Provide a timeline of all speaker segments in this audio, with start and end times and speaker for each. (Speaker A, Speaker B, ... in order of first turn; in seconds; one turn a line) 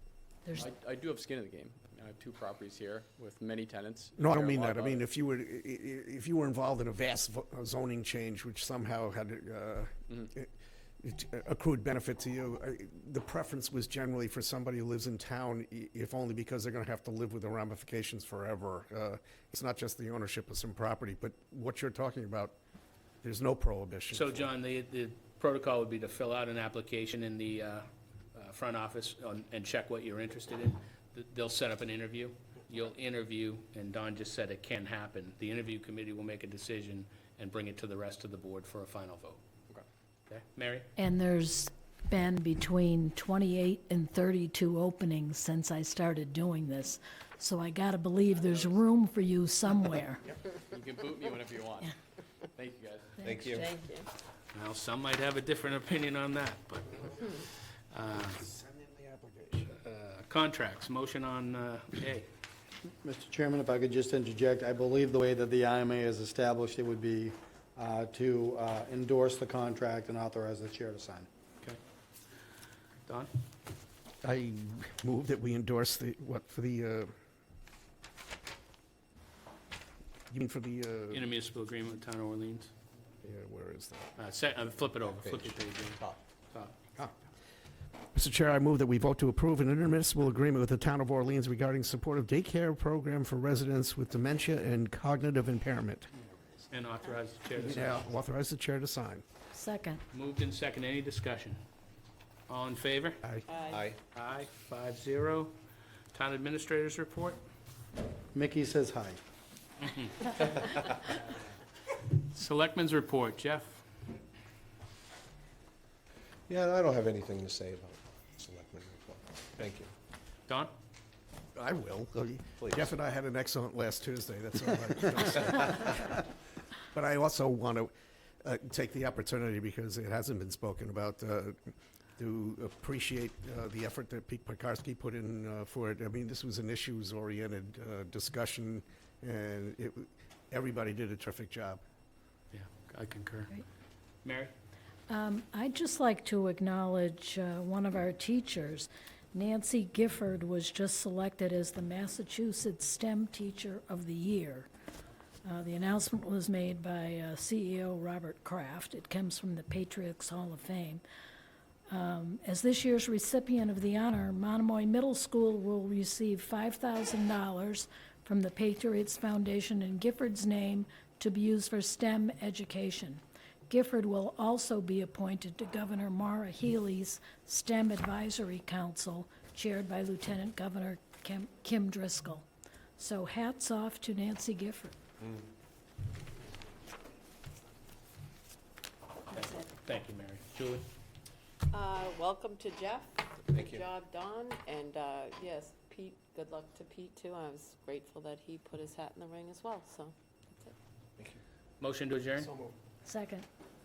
Speaker A: 0.5-5.0
Speaker B: 4.2-10.5
Speaker B: 11.0-22.6
Speaker B: 23.2-24.4
Speaker C: 24.1-39.4
Speaker C: 40.3-40.9
Speaker D: 41.0-50.2
Speaker A: 48.3-48.8
Speaker A: 50.6-51.9
Speaker A: 52.5-53.2
Speaker E: 53.2-53.7
Speaker F: 53.4-54.1
Speaker C: 54.5-58.4
Speaker B: 58.4-59.7
Speaker C: 59.7-62.3
Speaker G: 63.0-71.3
Speaker B: 74.2-77.1
Speaker B: 80.3-81.2
Speaker C: 81.1-82.7
Speaker B: 83.2-84.1
Speaker C: 84.2-86.7
Speaker E: 85.1-86.2
Speaker B: 88.1-96.1
Speaker C: 96.7-98.0
Speaker B: 97.6-99.2
Speaker D: 99.5-100.0
Speaker C: 100.1-101.6
Speaker C: 102.5-103.2
Speaker F: 103.5-103.8
Speaker E: 103.6-104.0
Speaker C: 104.1-105.5
Speaker C: 106.1-107.4
Speaker G: 108.3-109.2
Speaker C: 109.8-110.8
Speaker C: 112.1-113.8
Speaker E: 116.5-119.9
Speaker B: 121.5-126.2
Speaker E: 122.6-122.9
Speaker B: 126.9-127.9
Speaker B: 128.4-141.8
Speaker C: 142.5-143.5
Speaker C: 144.2-144.5
Speaker D: 145.1-154.7
Speaker D: 155.4-161.0
Speaker D: 161.9-182.4
Speaker D: 183.0-184.9
Speaker C: 189.3-190.8
Speaker F: 191.7-200.7
Speaker E: 193.5-193.9
Speaker C: 201.8-202.5
Speaker E: 202.4-202.7
Speaker D: 203.0-203.4